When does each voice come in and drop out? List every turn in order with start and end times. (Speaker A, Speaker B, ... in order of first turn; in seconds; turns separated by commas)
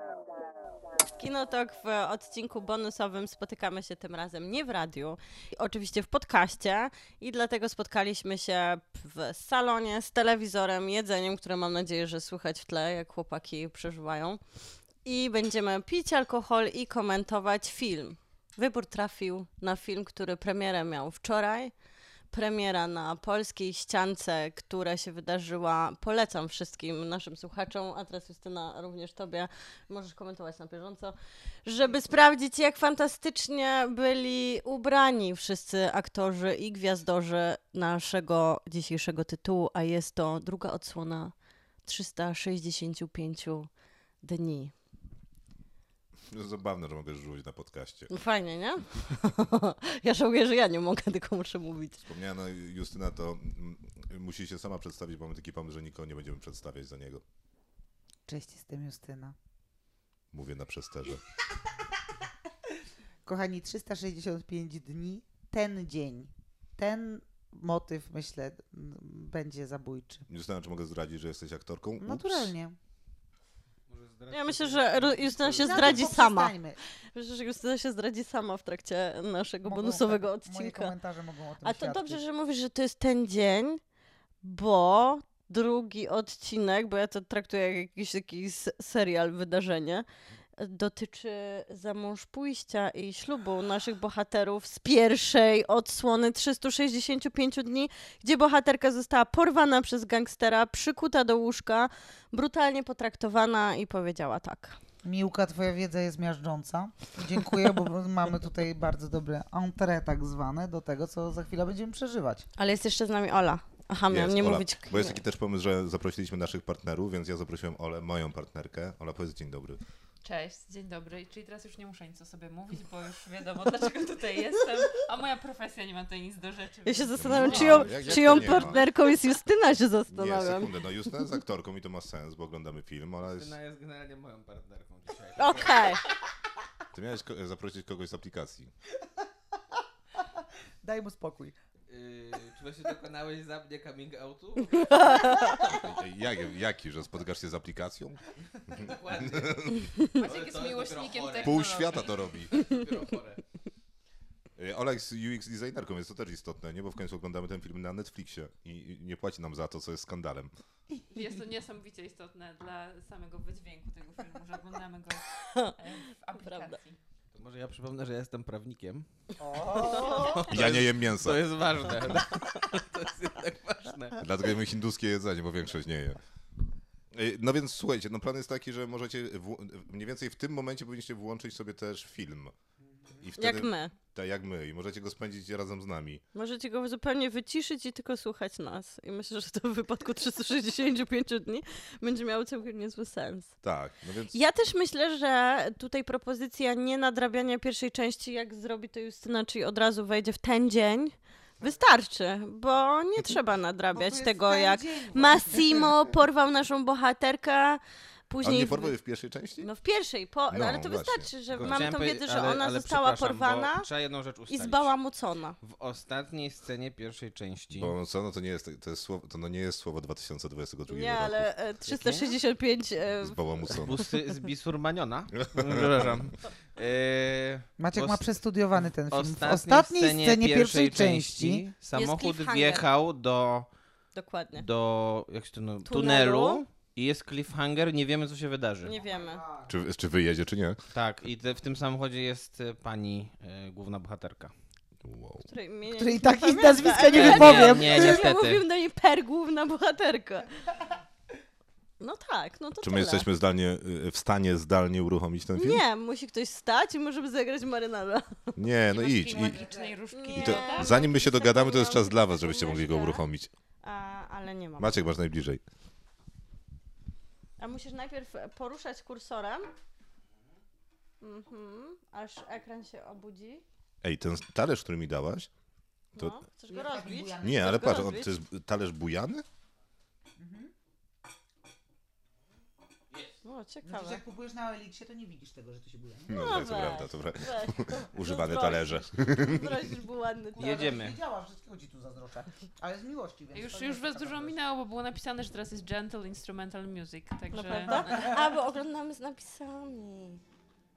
Speaker A: 1.2-14.4, Speaker A: 15.0-21.7, Speaker A: 22.3-43.7, Speaker A: 44.2-44.7, Speaker B: 46.3-48.1, Speaker A: 48.1-52.0, Speaker B: 52.0-57.2, Speaker C: 58.2-59.4, Speaker B: 60.3-61.2, Speaker C: 63.2-70.2, Speaker B: 70.3-72.5, Speaker C: 72.0-72.8, Speaker D: 73.9-75.9, Speaker A: 74.3-76.6, Speaker C: 75.6-76.8, Speaker A: 77.1-80.9, Speaker C: 79.6-82.2, Speaker A: 81.6-83.8, Speaker A: 84.4-90.0, Speaker A: 90.6-104.8, Speaker C: 105.0-112.5, Speaker A: 112.6-115.2, Speaker B: 114.1-119.8, Speaker E: 120.2-128.8, Speaker A: 126.8-130.7, Speaker B: 127.2-128.8, Speaker B: 130.1-133.6, Speaker D: 133.2-135.9, Speaker A: 135.3-136.0, Speaker B: 136.9-138.7, Speaker C: 140.2-141.6, Speaker D: 141.9-145.4, Speaker A: 144.7-145.8, Speaker B: 145.7-148.2, Speaker B: 148.7-150.1, Speaker D: 148.8-149.6, Speaker E: 150.0-152.3, Speaker D: 150.2-153.4, Speaker B: 151.4-152.6, Speaker B: 154.6-160.5, Speaker E: 161.1-165.2, Speaker A: 165.4-166.8, Speaker E: 165.8-167.0, Speaker D: 167.3-169.1, Speaker C: 169.4-170.5, Speaker D: 169.7-174.2, Speaker A: 169.8-170.4, Speaker B: 170.5-172.2, Speaker B: 174.2-176.2, Speaker B: 177.1-182.5, Speaker C: 182.8-183.3, Speaker B: 183.2-186.2, Speaker A: 183.4-183.9, Speaker A: 186.3-193.5, Speaker B: 193.6-194.4, Speaker A: 194.3-208.9, Speaker C: 203.9-206.1, Speaker B: 208.4-209.7, Speaker A: 209.6-213.9, Speaker B: 210.5-211.9, Speaker D: 211.6-214.9, Speaker A: 214.5-215.6, Speaker D: 215.6-217.9, Speaker B: 217.7-221.5, Speaker A: 220.9-223.8, Speaker D: 221.9-222.3, Speaker B: 223.2-224.0, Speaker D: 223.8-228.2, Speaker B: 225.4-226.2, Speaker C: 227.8-231.6, Speaker D: 229.1-233.7, Speaker A: 231.9-232.9, Speaker A: 234.1-234.7, Speaker D: 234.6-238.9, Speaker A: 235.8-236.6, Speaker A: 238.8-239.4, Speaker C: 238.8-239.8, Speaker B: 239.7-240.8, Speaker D: 240.9-244.5, Speaker B: 245.0-245.4, Speaker A: 245.4-250.5, Speaker C: 245.9-248.3, Speaker D: 247.0-248.6, Speaker A: 252.0-253.2, Speaker B: 252.8-255.8, Speaker A: 255.6-258.6, Speaker B: 258.6-259.6, Speaker E: 258.9-261.3, Speaker C: 259.3-260.0, Speaker A: 260.1-263.2, Speaker B: 260.3-263.5, Speaker A: 263.8-264.9, Speaker B: 264.8-265.6, Speaker A: 267.6-269.7, Speaker A: 271.2-273.6, Speaker B: 274.0-275.5, Speaker A: 276.1-278.3, Speaker C: 276.7-278.0, Speaker B: 277.4-279.4, Speaker C: 280.4-280.7, Speaker A: 283.4-284.2, Speaker C: 283.8-286.7, Speaker B: 286.3-289.8, Speaker A: 286.3-290.8, Speaker C: 290.5-294.6, Speaker D: 290.6-291.2, Speaker E: 293.5-298.4, Speaker A: 297.5-300.4